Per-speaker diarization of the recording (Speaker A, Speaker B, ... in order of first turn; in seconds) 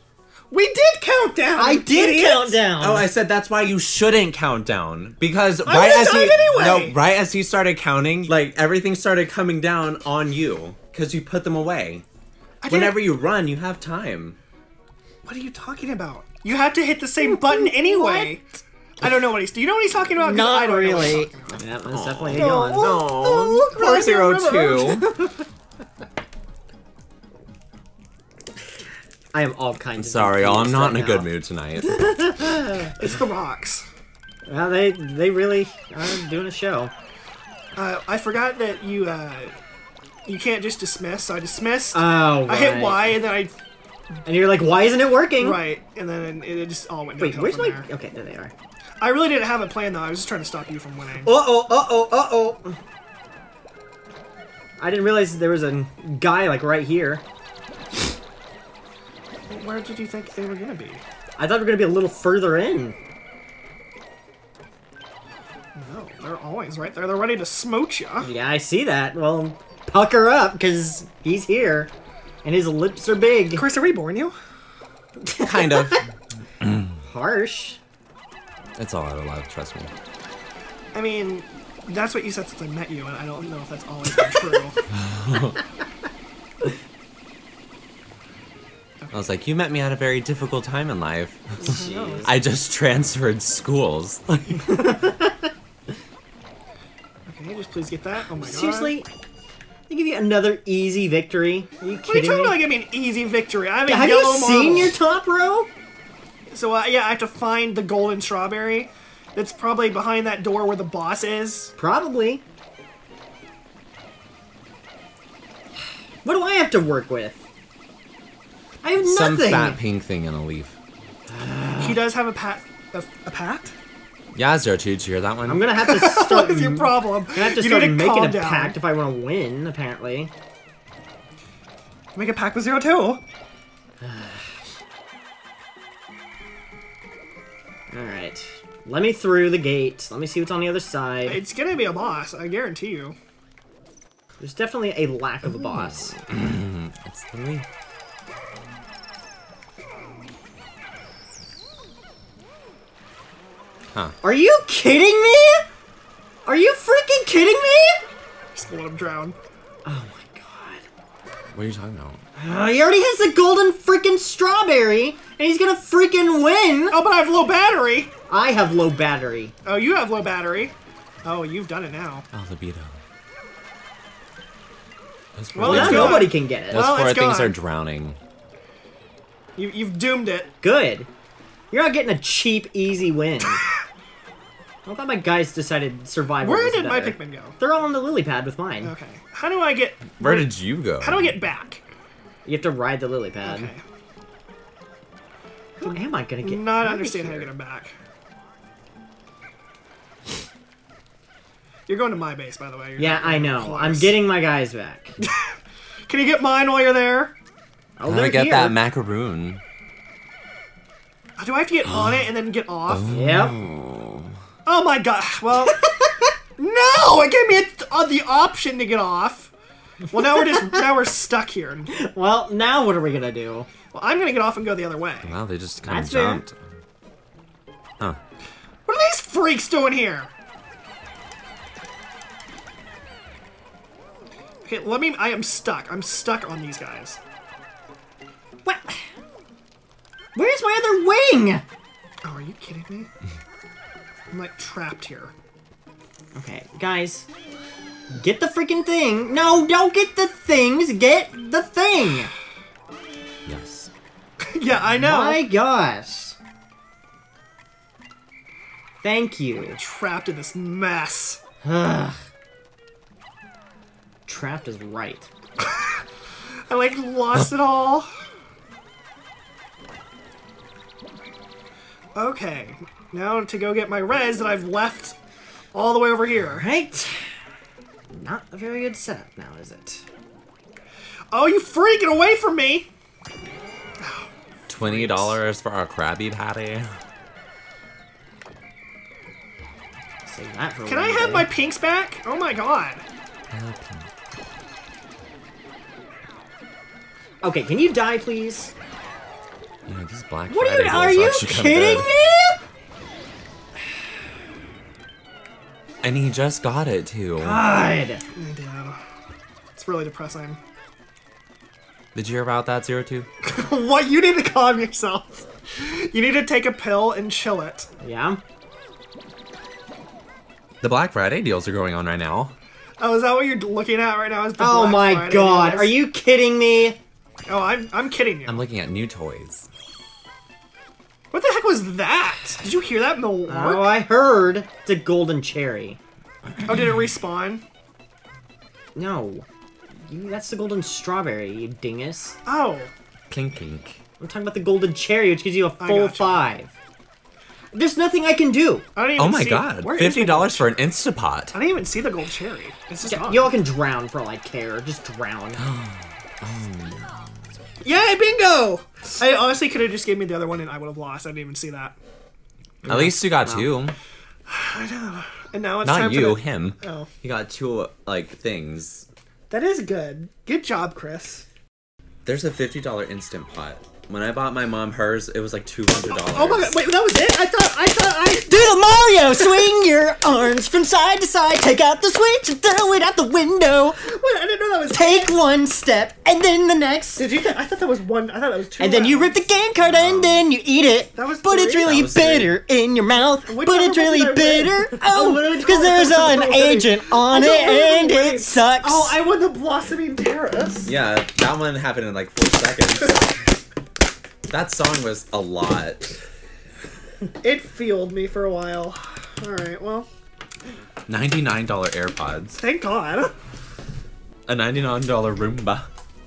Speaker A: 0.5-2.6, 5.6-7.0, 12.6-13.1, 15.2-18.4, 19.0-21.6, 22.3-25.3, 33.0-33.9, 37.8-39.5, 40.3-43.5, 45.4-47.9, 49.0-51.4, 59.5-61.0, 65.8-68.3, 73.5-74.4, 80.9-84.8, 91.6-92.3, 97.3-99.0, 102.1-105.0, 106.5-111.7, 121.8-123.7, 125.8-128.8, 132.2-133.2, 141.2-143.2, 158.6-159.4, 166.9-168.1, 169.7-172.2, 175.6-177.6, 179.6-180.5, 186.4-187.6, 188.8-191.8, 193.4-193.8, 195.8-197.9, 201.9-204.2, 205.2-205.5, 206.1-207.3, 211.4-213.2, 214.7-215.8, 216.6-219.5, 220.1-221.9, 223.9-225.3, 228.9-230.3, 234.7-237.2, 242.2-243.1, 244.3-245.3, 254.5-255.5, 259.8-261.4, 265.6-266.0, 266.7-268.1, 272.1-275.2, 275.7-276.7, 281.3-282.9, 284.0-285.4, 290.9-293.0, 308.4-309.0, 309.8-310.6, 313.4-317.9, 323.0-326.0, 327.5-328.7, 331.3-334.1, 336.6-337.6, 342.4-342.9, 345.8-346.5, 349.0-350.8, 351.5-353.6, 357.8-361.9, 364.5-367.1, 369.5-371.4, 375.9-378.4, 384.0-385.4, 387.2-389.4, 391.1-392.0, 393.5-400.9, 407.4-410.1, 412.6-413.3
Speaker B: 1.6-3.1, 17.2-18.4, 20.2-23.0, 29.3-31.3, 31.9-32.9, 34.5-36.9, 41.9-43.2, 44.2-45.6, 47.2-48.5, 51.2-52.8, 54.8-57.2, 61.4-63.0, 68.2-71.9, 72.4-73.7, 75.2-76.0, 77.0-77.8, 91.6-92.3, 94.7-95.5, 98.4-99.1, 99.9-102.7, 103.9-105.7, 111.8-112.4, 116.2-117.4, 118.8-119.8, 121.3-122.1, 125.5-130.3, 134.0-134.5, 137.9-141.4, 144.4-146.2, 154.2-155.7, 156.4-158.0, 159.8-160.9, 162.4-167.0, 168.3-169.5, 175.6-176.9, 180.6-181.1, 181.7-183.6, 184.8-188.9, 192.4-193.7, 195.8-197.5, 203.0-205.1, 208.0-208.8, 213.1-213.6, 221.9-223.7, 225.8-226.4, 238.7-239.1, 240.3-241.7, 246.3-247.3, 248.1-252.3, 255.0-256.4, 259.0-259.8, 261.6-262.2, 264.3-265.3, 276.4-277.3, 278.1-280.1, 290.2-291.5, 297.4-298.7, 300.5-302.6, 307.4-308.2, 318.0-318.4, 324.6-327.0, 333.5-336.0, 338.9-339.5, 340.1-342.4, 344.2-346.7, 347.7-348.9, 353.0-355.6, 362.8-363.7, 378.2-384.0, 384.9-387.2, 388.8-399.2
Speaker C: 2.8-12.0, 12.7-14.4, 21.9-25.2, 30.0-32.1, 75.4-76.0, 78.8-79.9, 85.0-85.6, 89.1-91.7, 92.2-94.7, 119.0-120.8, 124.3-125.7, 145.8-147.7, 161.5-162.2, 172.3-173.0, 175.4-178.2, 190.2-191.4, 208.0-209.6, 212.9-214.3, 225.2-226.6, 253.5-253.9, 284.7-286.9, 293.5-294.1, 299.9-302.1, 306.0-307.6, 312.1-313.3, 320.8-322.5, 328.5-329.7, 343.3-344.0, 349.2-351.6, 355.6-357.4, 362.9-363.9, 365.8-369.1, 372.3-376.8, 389.8-390.4, 391.8-392.6, 400.9-403.3, 404.5-406.2, 411.1-412.6, 414.5-415.9